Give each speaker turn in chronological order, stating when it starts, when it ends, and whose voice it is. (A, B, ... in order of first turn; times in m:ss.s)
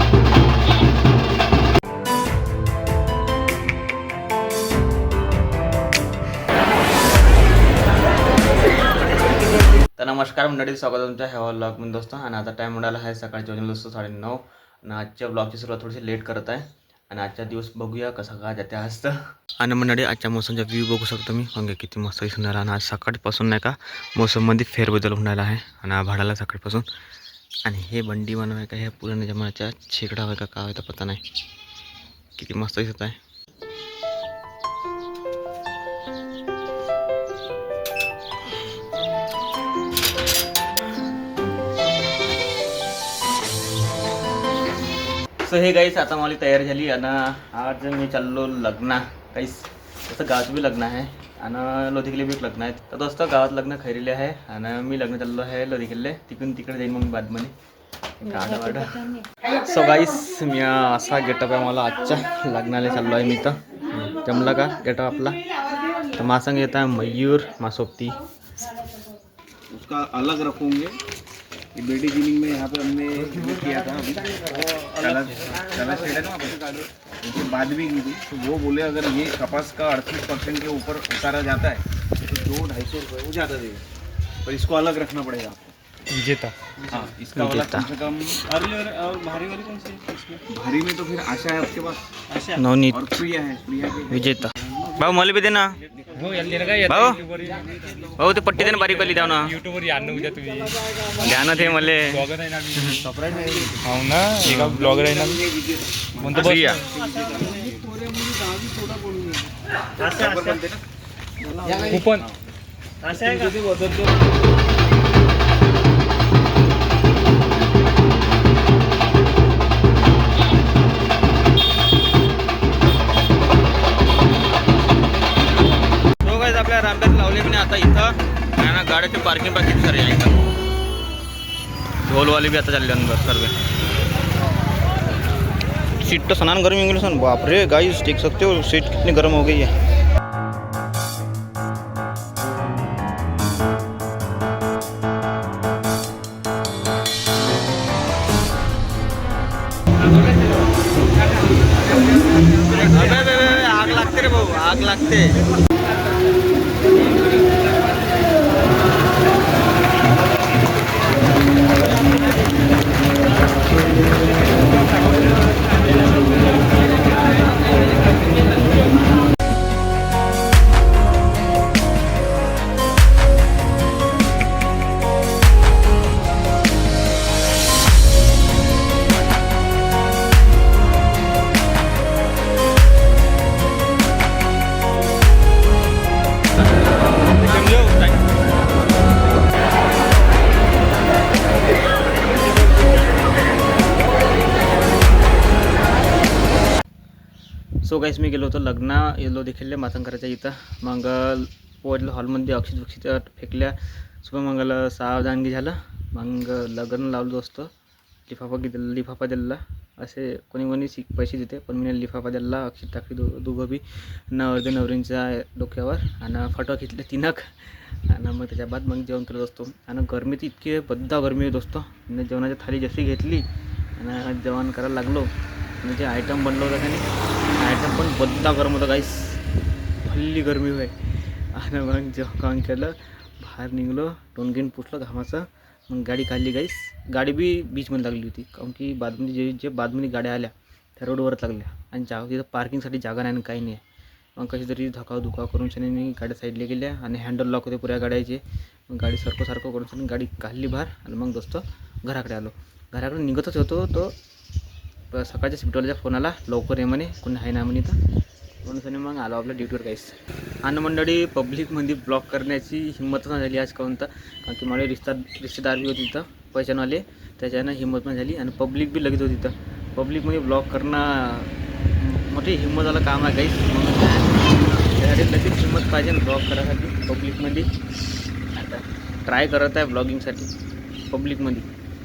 0:10.0-0:26.8 A
0:27.6-0:31.2 A
0:32.4-0:33.2 A
0:45.4-0:57.5 A
0:58.2-1:05.4 A
1:06.1-1:08.2 A
1:09.7-1:11.0 B
1:11.7-1:23.8 B
1:14.6-1:15.6 C
1:24.4-1:25.7 B
1:26.1-1:27.1 C
1:26.9-1:28.5 B
1:27.3-1:27.9 A
1:28.5-1:30.4 C
1:30.4-1:32.2 B
1:32.5-1:33.1 A
1:32.9-1:34.4 B
1:34.0-1:35.8 A
1:36.1-1:37.8 C
1:36.8-1:37.2 A
1:38.2-1:39.6 A
1:38.6-1:45.4 C
1:41.2-1:43.1 A
1:43.2-1:43.8 B
1:44.4-1:44.7 A
1:44.6-1:50.8 B
1:46.2-1:46.9 C
1:46.4-1:46.8 A
1:50.0-1:50.6 A
1:51.4-1:52.4 B
1:51.9-1:52.2 C
1:53.0-1:53.5 A
1:53.3-1:54.0 B
2:06.2-2:10.4 A
2:12.0-2:13.5 A
2:16.0-2:19.8 A
2:32.5-2:35.4 A
3:07.5-3:08.2 A
3:17.8-3:27.7 A
3:28.3-3:43.4 A
3:44.0-3:45.3 A
3:45.8-3:47.1 A
3:47.6-3:49.4 A
3:50.0-4:03.8 A
4:04.4-4:14.1 A
4:15.1-4:18.0 A
4:18.6-4:37.7 A
4:38.5-4:40.5 A
4:41.1-4:41.7 A